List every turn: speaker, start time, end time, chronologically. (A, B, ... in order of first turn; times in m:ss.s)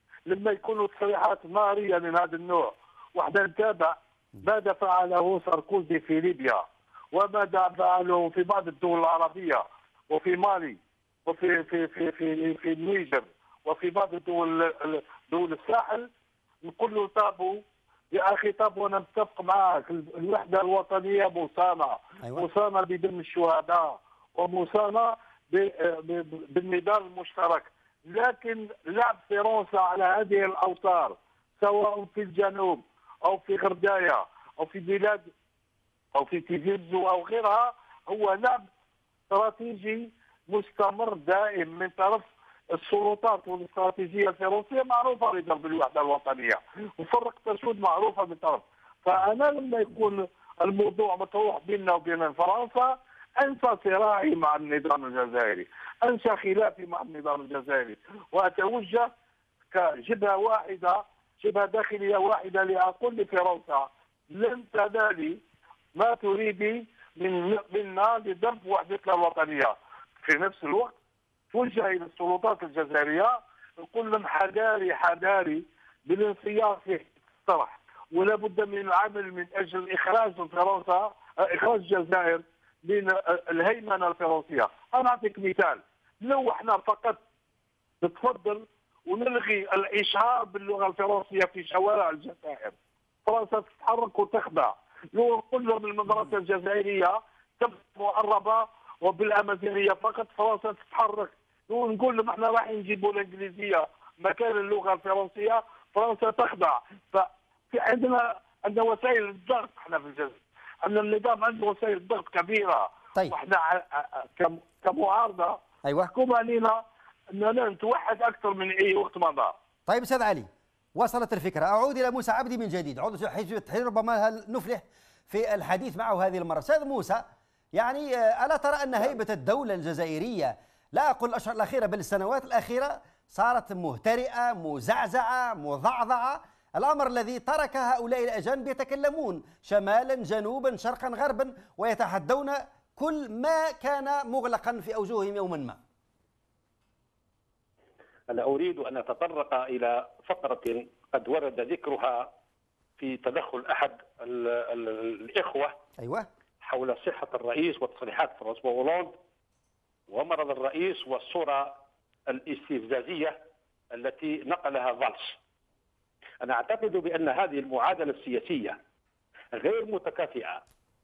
0:00.2-0:16.1 A
0:16.6-0:35.3 A
0:36.1-0:38.6 A
0:39.3-0:59.1 A
0:59.7-1:05.4 A
1:05.9-1:10.9 A
1:11.5-1:27.2 A
1:28.0-1:55.6 A
1:55.8-1:56.1 B
1:56.1-1:56.8 A
1:57.3-1:59.5 A
1:59.9-2:25.8 B
2:28.3-2:32.3 C
2:33.0-2:35.8 C
2:36.0-2:36.3 B
2:36.6-2:39.1 C
2:40.1-2:41.8 C
2:42.3-2:43.4 C
2:43.9-2:45.4 C
2:46.4-2:48.8 C
2:49.5-2:50.6 C